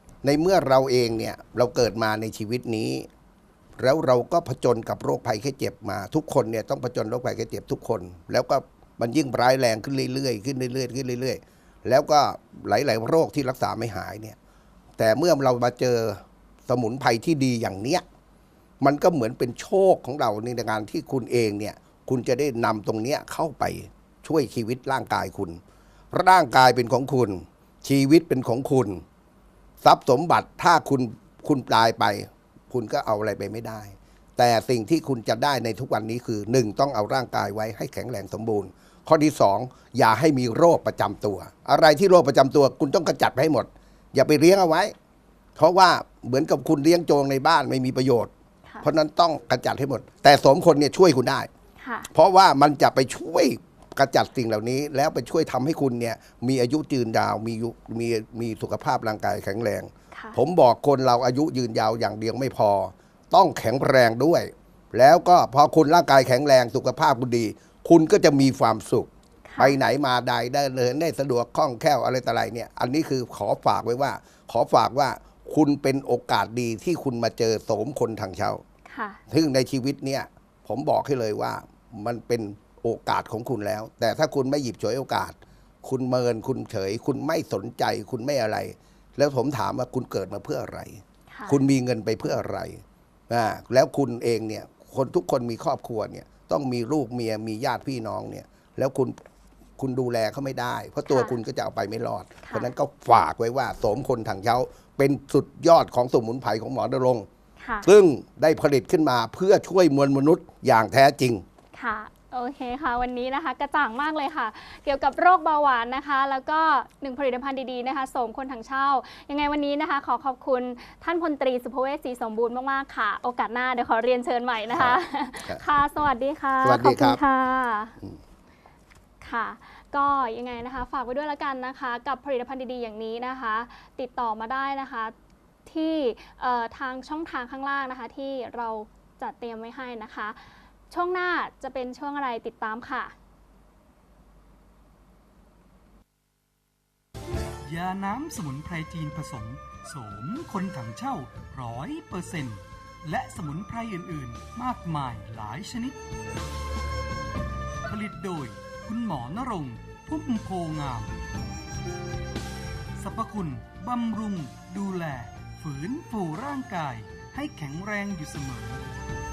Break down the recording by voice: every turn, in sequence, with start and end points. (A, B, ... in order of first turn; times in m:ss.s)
0:00.2-0:03.1 A
0:03.8-0:14.4 A
0:15.0-0:18.0 A
0:18.8-0:25.6 A
0:26.1-0:29.0 A
0:29.8-0:44.9 A
0:45.6-0:48.3 A
0:48.8-0:51.5 A
0:51.8-0:52.1 B
0:52.1-1:18.6 A
1:00.1-1:00.4 B
1:09.5-1:09.8 B
1:18.9-1:19.2 B
1:19.3-1:39.2 A
1:31.3-1:31.6 B
1:39.8-1:47.3 A
1:41.1-1:41.4 B
1:42.4-1:42.7 B
1:47.6-1:47.9 B
1:47.8-1:51.4 A
1:51.7-2:08.0 B
2:04.7-2:05.6 A
2:06.6-2:07.2 A
2:09.2-2:15.1 B
2:15.6-2:23.1 B
2:27.6-2:36.0 C
2:37.9-2:41.1 C
2:43.0-2:48.8 C